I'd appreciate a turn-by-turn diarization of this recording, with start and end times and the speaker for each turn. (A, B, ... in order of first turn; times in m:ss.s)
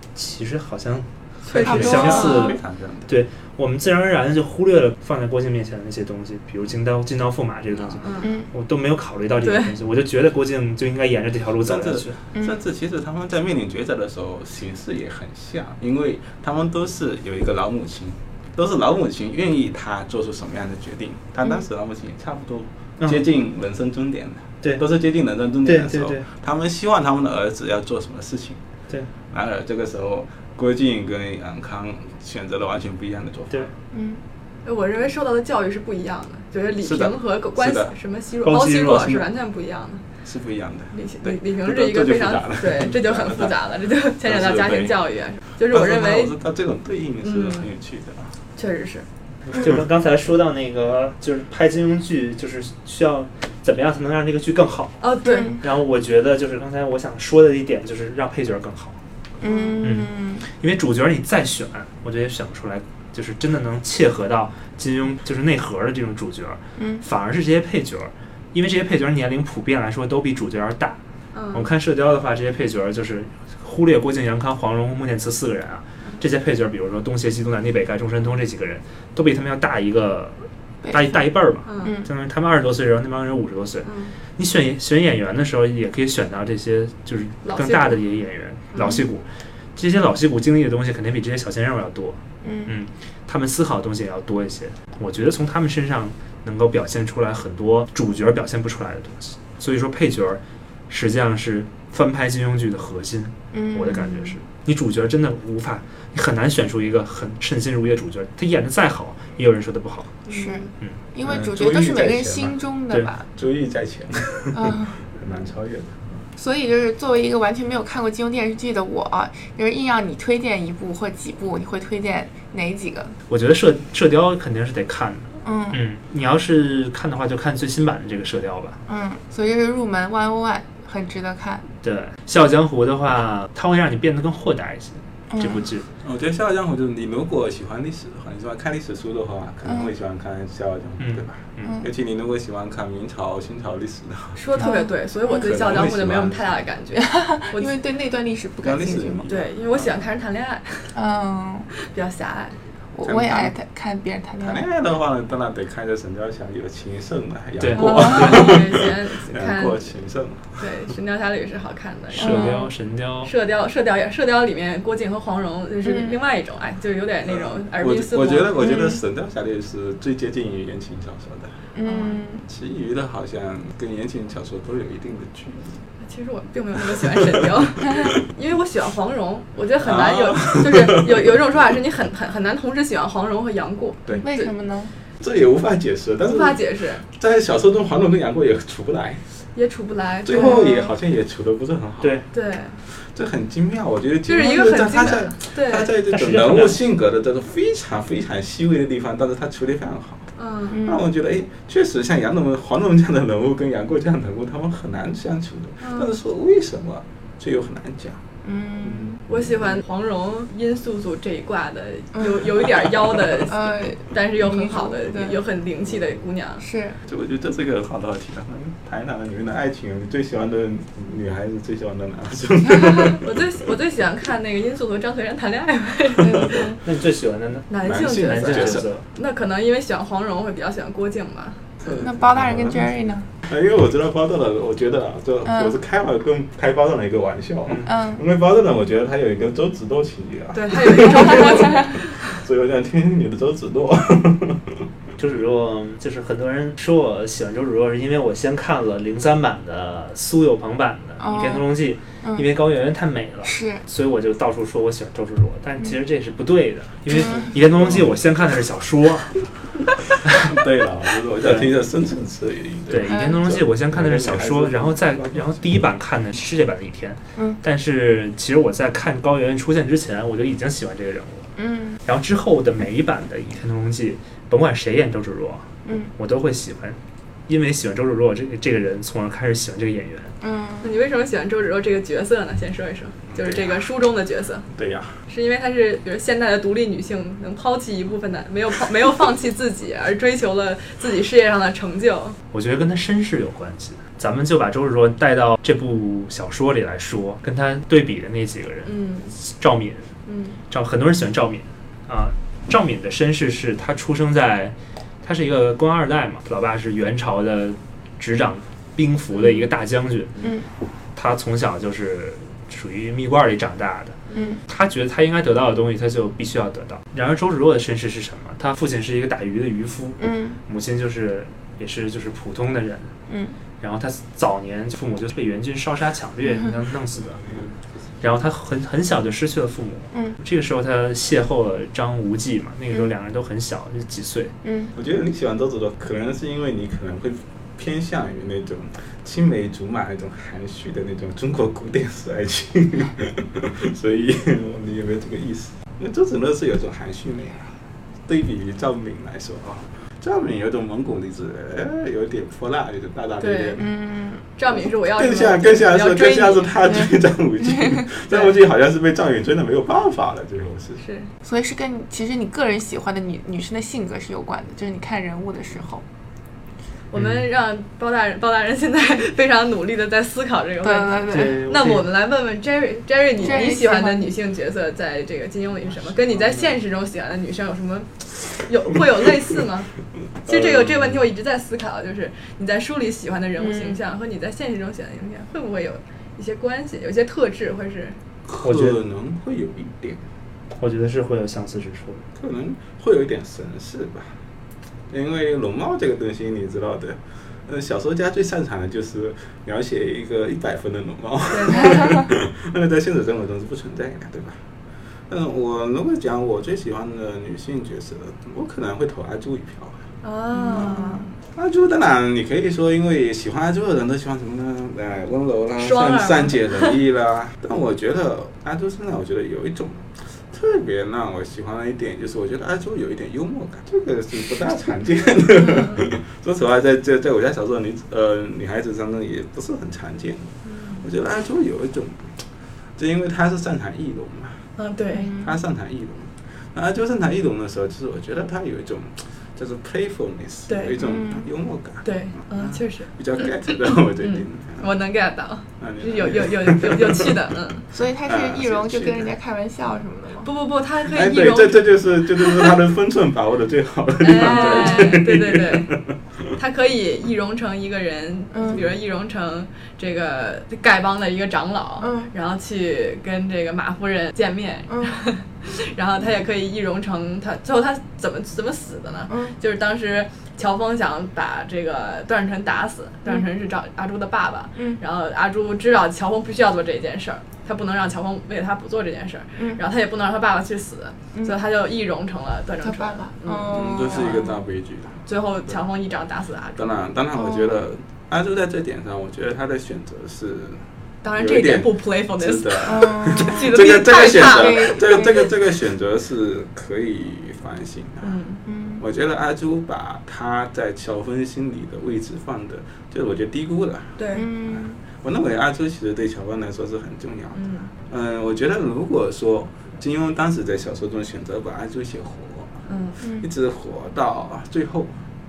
0:00.2-0:12.2 A
0:01.5-0:02.6 B
0:01.5-0:03.1 C
0:01.9-0:02.3 D
0:08.0-0:08.3 B
0:08.2-0:08.5 D
0:09.4-0:09.7 B
0:11.6-0:28.6 C
0:25.6-0:26.3 A
0:29.3-0:33.7 C
0:33.9-0:34.2 D
0:34.6-0:40.0 B
0:36.8-0:37.9 C
0:38.4-0:39.3 A
0:40.2-0:43.6 C
0:40.9-0:46.4 B
0:44.2-0:45.0 C
0:45.7-0:48.3 C
0:47.2-0:47.7 B
0:48.6-0:49.1 B
0:49.5-0:59.0 A
0:55.0-0:55.6 B
0:55.2-0:55.6 D
0:59.4-1:00.4 D
0:59.4-0:59.8 B
0:59.8-1:11.0 A
1:06.8-1:07.0 D
1:11.3-1:11.7 B
1:11.5-1:50.2 A
1:20.8-1:22.1 D
1:21.7-1:22.0 B
1:23.8-1:24.1 B
1:27.4-1:28.0 B
1:28.7-1:29.0 B
1:32.4-1:32.7 D
1:43.5-1:44.4 D
1:50.3-1:50.7 B
1:50.3-1:53.3 D
1:51.2-1:52.6 C
1:53.3-1:56.1 C
1:54.5-1:55.0 D
1:56.4-2:03.2 D
2:03.3-2:08.8 A
2:05.4-2:05.8 D
2:08.9-2:11.6 D
2:11.8-2:15.9 A
2:15.3-2:15.7 D
2:16.0-2:24.4 C
2:19.6-2:19.9 D
2:21.0-2:21.8 A
2:21.6-2:21.9 D
2:24.4-2:27.8 B
2:24.6-2:25.6 D
2:25.3-2:26.6 C
2:27.0-2:29.3 D
2:28.6-2:30.0 C
2:29.3-2:31.0 B
2:30.9-2:31.7 D
2:31.9-2:32.6 B
2:32.9-2:34.7 D
2:33.0-2:33.5 C
2:34.4-2:40.7 C
2:37.6-2:38.6 A
2:37.8-2:38.3 D
2:37.8-2:40.0 B
2:40.6-2:42.7 B
2:42.1-2:43.3 A
2:42.2-2:42.7 D
2:43.2-2:48.9 B
2:45.8-2:46.2 D
2:47.3-2:51.6 C
2:48.6-2:49.0 D
2:51.8-2:52.4 D
2:51.8-2:52.2 B
2:52.4-2:55.8 C
2:56.0-3:04.5 B
2:56.9-2:58.2 C
2:59.8-3:01.4 C
3:04.2-3:04.9 D
3:05.2-3:09.2 C
3:06.2-3:07.0 B
3:09.6-3:10.9 B
3:10.2-3:12.2 C
3:10.4-3:10.8 D
3:12.0-3:12.3 A
3:12.3-3:12.8 B
3:12.9-3:28.2 C
3:14.3-3:15.9 B
3:16.1-3:16.8 A
3:20.4-3:20.8 B
3:20.7-3:21.1 D
3:25.8-3:26.2 B
3:28.4-3:29.2 D
3:28.8-3:29.5 C
3:29.3-3:36.6 B
3:32.2-3:32.5 D
3:33.5-3:35.4 D
3:36.6-3:37.0 D
3:37.1-3:43.2 C
3:43.2-3:46.7 B
3:46.2-3:46.8 D
3:46.8-3:49.0 A
3:47.7-3:51.6 B
3:47.8-3:48.9 C
3:51.8-3:52.9 C
3:51.9-3:53.3 D
3:53.5-4:04.8 C
3:55.4-3:55.8 D
3:57.7-3:57.9 A
3:57.8-3:58.2 D
4:00.5-4:02.2 B
4:05.2-4:19.4 A
4:11.2-4:12.5 D
4:13.4-4:13.8 D
4:17.1-4:17.5 D
4:17.2-4:18.2 C
4:20.3-4:25.8 C
4:21.4-4:21.7 A
4:22.9-4:31.5 A
4:23.1-4:23.4 D
4:31.6-4:32.0 D
4:32.0-4:40.3 A
4:35.8-4:36.1 D
4:40.4-4:41.0 D
4:40.8-4:44.7 B
4:43.3-4:43.8 C
4:44.7-4:45.2 C
4:45.3-4:52.4 B
4:52.5-5:00.1 A
4:58.8-4:59.3 B
5:00.3-5:00.6 B
5:00.7-5:10.4 A
5:10.4-5:10.7 D
5:11.2-5:23.1 A
5:14.3-5:14.6 B
5:14.3-5:14.6 D
5:20.2-5:20.6 D
5:23.3-5:23.6 D
5:23.8-5:27.4 A
5:27.2-5:27.7 C
5:28.2-5:34.5 A
5:30.1-5:30.4 D
5:34.6-5:34.9 D
5:35.0-5:47.8 C
5:48.3-5:53.9 C
5:53.4-5:53.8 B
5:53.8-5:54.4 D
5:54.6-5:57.0 B
5:54.7-6:01.0 C
5:56.8-5:58.1 D
6:01.0-6:01.3 B
6:01.4-6:06.0 D
6:07.1-6:19.9 B
6:07.2-6:07.4 A
6:10.8-6:11.7 D
6:11.3-6:12.1 A
6:13.4-6:14.4 D
6:16.0-6:16.7 C
6:20.4-6:28.2 B
6:20.5-6:21.2 C
6:23.6-6:24.0 D
6:28.5-6:30.2 C
6:28.6-6:29.0 A
6:30.8-6:32.2 A
6:32.4-6:34.3 C
6:35.1-6:44.6 C
6:41.5-6:42.2 B
6:45.3-6:50.0 C
6:50.2-6:51.3 B
6:50.7-6:51.2 D
6:50.7-7:12.4 C
6:55.8-6:57.0 B
7:05.6-7:06.0 B
7:10.6-7:11.1 B
7:13.0-7:14.7 C
7:14.8-7:15.3 B
7:15.1-7:15.6 D
7:15.4-7:24.9 C
7:20.7-7:21.2 B
7:21.0-7:21.5 D
7:22.0-7:27.9 B
7:25.8-7:27.4 C
7:27.9-7:30.5 D
7:28.2-7:29.3 C
7:30.4-7:32.8 B
7:31.1-7:36.2 C
7:34.2-7:36.0 B
7:34.5-7:35.0 D
7:36.5-8:04.4 B
7:38.5-7:38.8 D
7:42.0-7:42.3 D
7:44.9-7:45.2 D
7:49.3-7:49.6 D
7:54.8-7:55.0 D
8:02.8-8:04.6 D
8:03.7-8:05.8 C
8:05.3-8:07.0 B
8:06.8-8:10.8 C
8:07.4-8:07.8 D
8:11.2-8:15.5 B
8:11.3-8:18.4 C
8:12.8-8:15.5 D
8:18.2-8:18.6 B
8:18.7-8:19.0 D
8:19.0-8:32.7 C
8:24.2-8:24.5 B
8:24.3-8:25.0 D
8:27.5-8:27.9 B
8:32.9-8:33.2 B
8:33.2-8:33.5 D
8:33.2-8:35.2 C